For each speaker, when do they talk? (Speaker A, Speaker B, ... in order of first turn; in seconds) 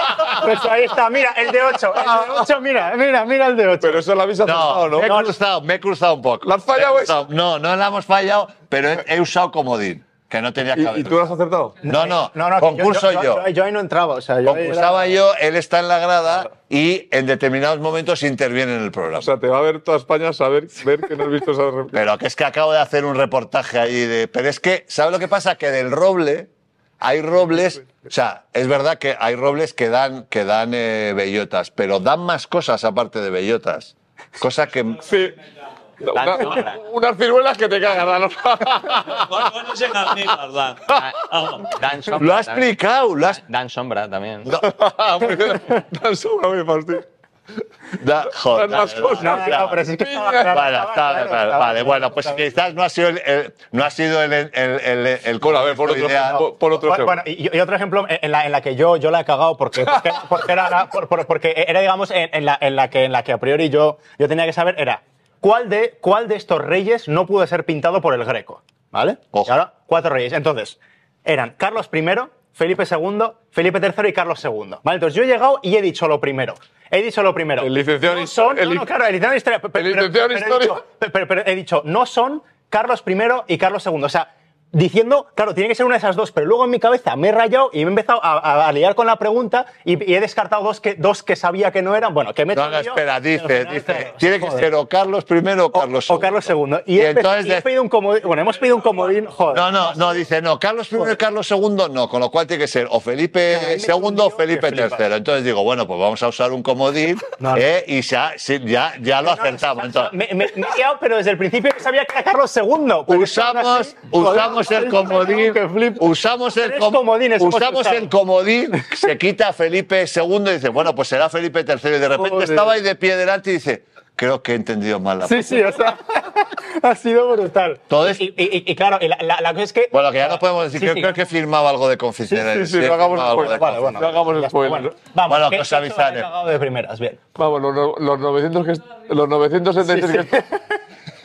Speaker A: 0.2-4.0, 11.8-15.2, 49.2-52.4, 56.3-94.7, 95.7-99.9, 103.5-105.0, 107.4-107.7, 109.2-118.1, 122.2-122.7, 125.2-131.2, 133.4-137.2, 139.8-140.7
Speaker B: 3.8-5.3, 6.4-7.2, 10.7-11.8, 19.1-21.9, 35.0-35.4, 36.0-39.5, 40.1-40.3, 44.6-47.0, 48.4-50.5, 55.4-57.2, 77.6-78.9, 79.8-80.8, 132.3-134.9, 137.3-140.4
Speaker C: 4.4-11.2, 11.8-13.4, 14.4-19.3, 21.9-35.1, 42.1-43.4, 44.5-45.4, 47.9-49.8, 50.5-56.5, 92.5-97.7, 99.5-110.1, 113.1-125.9, 127.9-128.3, 129.9-134.0, 135.2-136.3
Speaker D: 39.1-41.7
Speaker E: 41.0-44.5